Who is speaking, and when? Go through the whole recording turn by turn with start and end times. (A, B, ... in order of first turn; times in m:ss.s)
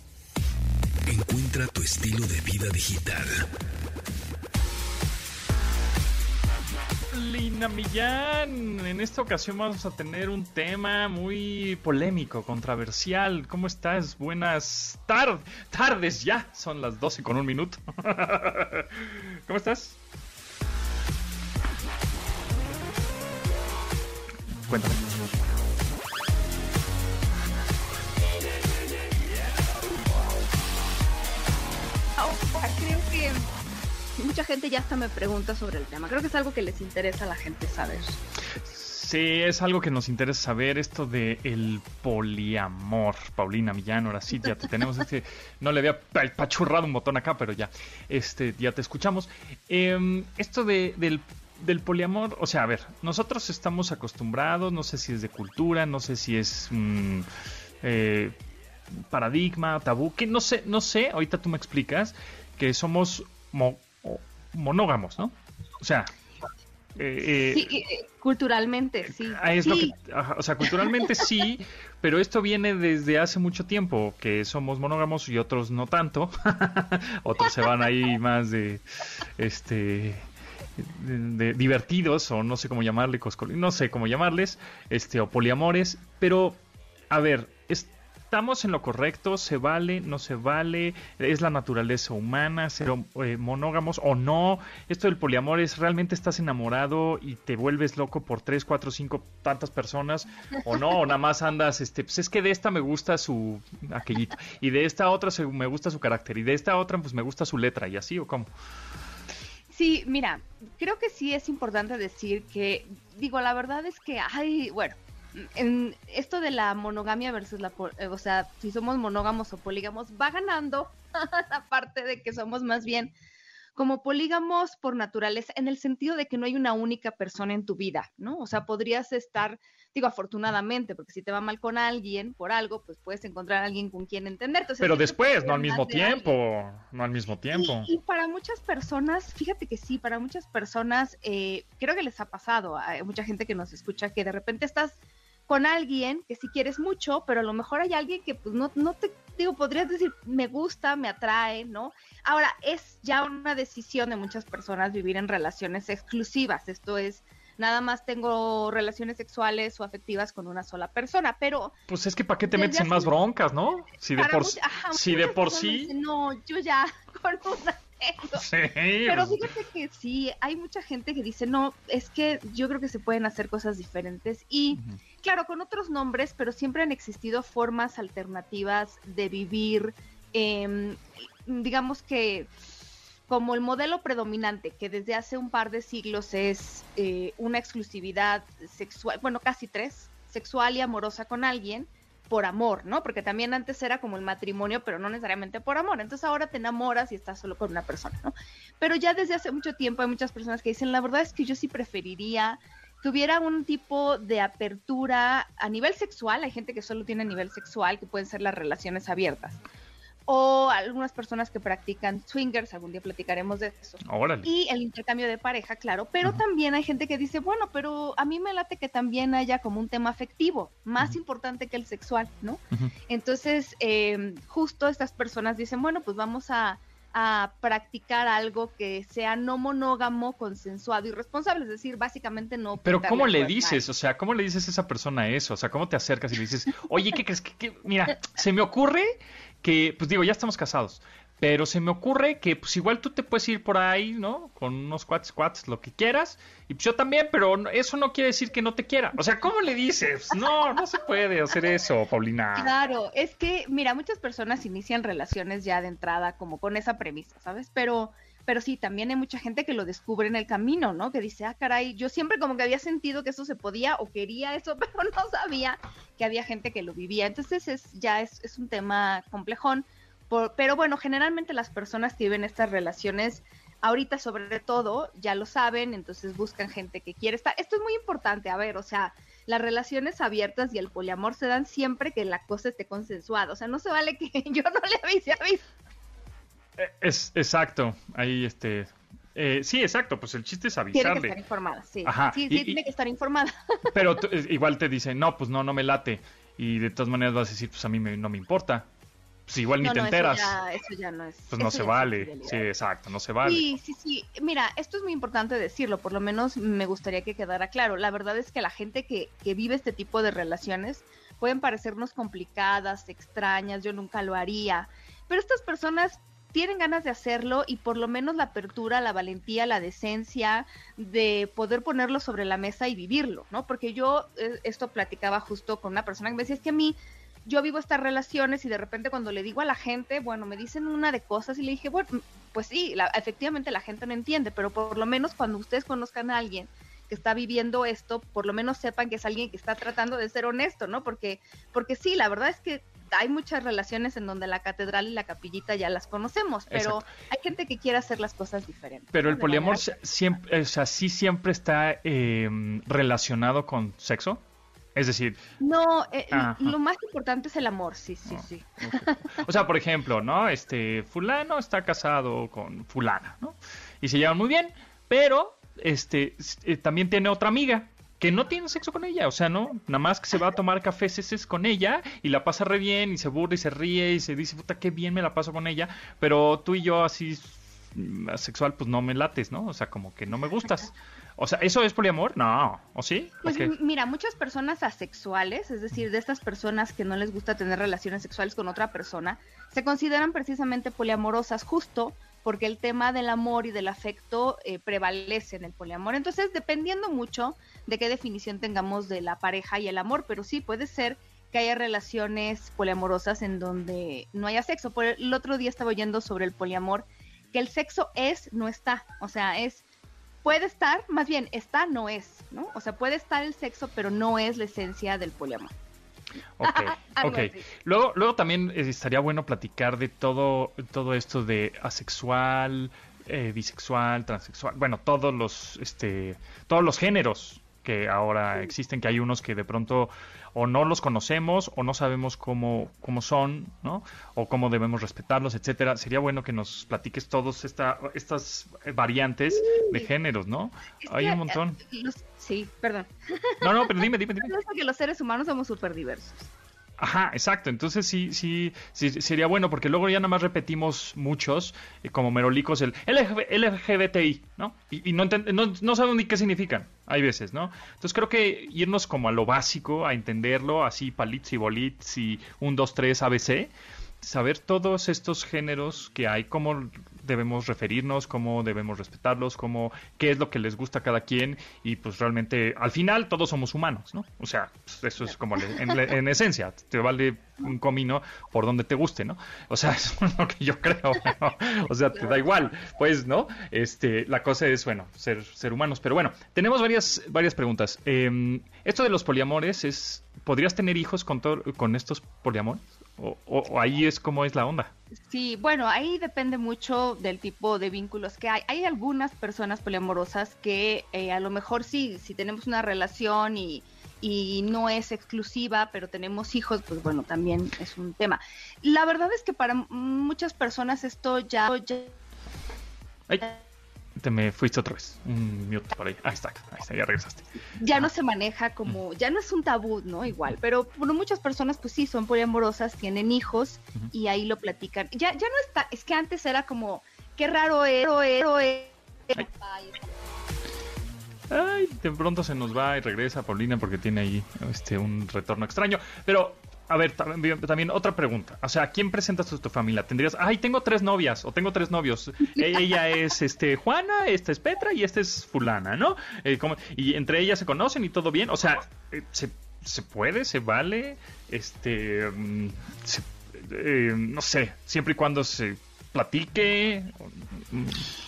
0:01.0-0:03.5 A
0:07.1-0:20.0 B
0:24.6-0:25.0 B
0:32.2-0:33.5 C
0:34.2-0:38.2 C
0:38.6-0:57.3 B
0:57.8-0:58.3 B
0:58.9-1:06.1 B
1:07.0-1:07.7 B
1:07.3-1:09.9 C
1:09.1-1:20.2 B
1:20.8-1:26.6 B
1:27.1-1:48.5 B
1:49.7-2:03.1 C
2:03.8-2:16.3 C
2:14.8-2:17.9 B
2:17.5-2:25.0 C
2:25.5-2:41.7 C
2:41.9-2:45.9 B
2:42.4-2:43.1 C
2:44.2-2:48.4 C
2:48.4-2:49.4 B
2:49.0-3:02.5 C
3:03.3-3:29.6 C
3:30.3-3:53.8 C
3:34.0-3:34.5 B
3:52.8-4:12.7 B
4:12.6-4:45.6 C
4:46.8-4:51.4 B
4:50.9-4:53.9 C
4:52.0-4:52.8 B
4:53.9-4:58.9 B
4:59.5-5:00.6 B
4:59.8-5:02.6 C
5:01.5-5:03.6 B
5:03.4-5:49.8 C
5:46.7-5:47.0 B
5:49.1-5:54.4 B
5:55.0-5:55.4 B
5:55.6-5:59.4 C
5:56.3-5:56.8 B
5:58.3-6:23.7 B
6:23.4-6:49.8 C
6:50.4-6:55.7 C
6:56.6-7:21.8 B
6:56.6-6:57.6 C
7:19.5-7:20.1 C
7:21.0-7:26.5 C
7:23.6-7:24.5 B
7:27.0-7:43.7 B
7:44.2-8:14.9 B
8:15.3-8:32.1 C
8:33.3-8:33.5 B
8:34.2-8:38.1 B
8:37.8-8:50.1 C
8:51.5-9:18.1 B